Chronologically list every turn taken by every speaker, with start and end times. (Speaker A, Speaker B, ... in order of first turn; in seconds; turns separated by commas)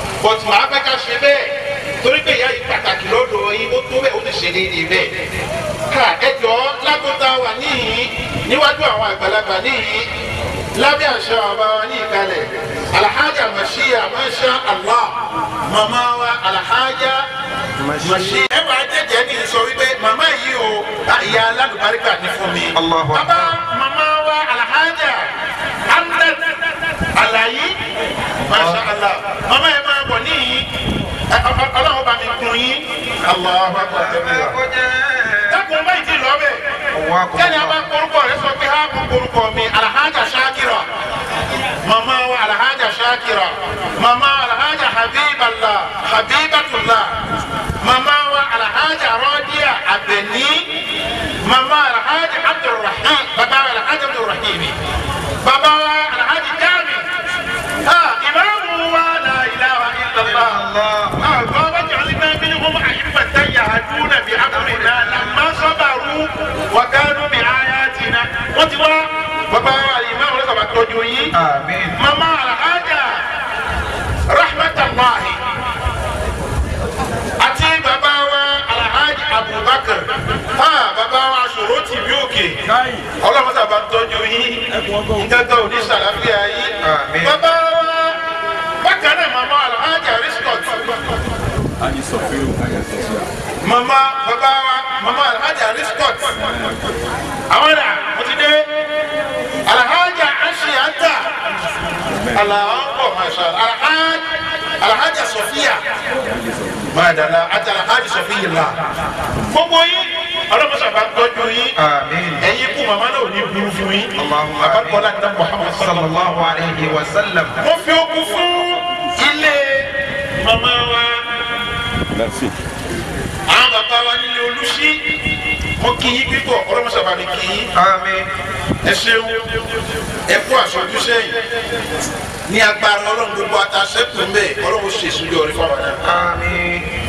Speaker A: 0.2-5.1, Speaker A: 5.9-10.1, Speaker A: 10.7-17.2, Speaker A: 18.0-25.3, Speaker B: 18.0-18.4, Speaker B: 22.7-23.5, Speaker A: 25.9-26.4, Speaker A: 27.1-27.7, Speaker A: 28.5-30.7, Speaker B: 28.5-28.8, Speaker A: 31.3-34.5, Speaker B: 33.7-35.6, Speaker A: 35.5-36.6, Speaker B: 36.9-37.8, Speaker A: 37.3-40.9, Speaker A: 41.8-47.1, Speaker A: 47.8-50.7, Speaker A: 51.4-54.8, Speaker A: 55.4-57.1, Speaker A: 57.8-60.6, Speaker B: 60.2-61.2, Speaker A: 61.2-71.3, Speaker B: 64.5-65.3, Speaker B: 71.3-72.0, Speaker A: 72.0-73.2, Speaker A: 74.3-75.4, Speaker A: 77.4-82.6, Speaker A: 83.2-88.2, Speaker B: 86.8-87.4, Speaker A: 88.8-90.9, Speaker A: 93.6-96.3, Speaker A: 97.5-98.6, Speaker A: 99.6-101.3, Speaker A: 102.3-104.2, Speaker A: 104.8-105.8, Speaker A: 106.9-108.8, Speaker A: 109.5-111.8, Speaker B: 111.8-112.5, Speaker A: 112.4-116.2, Speaker B: 114.2-115.1, Speaker B: 115.7-117.5, Speaker A: 117.6-121.2, Speaker A: 123.5-125.0, Speaker A: 125.8-127.7, Speaker B: 127.7-128.3, Speaker A: 128.8-129.4, Speaker A: 130.3-131.3, Speaker A: 132.5-136.0, Speaker B: 136.0-136.8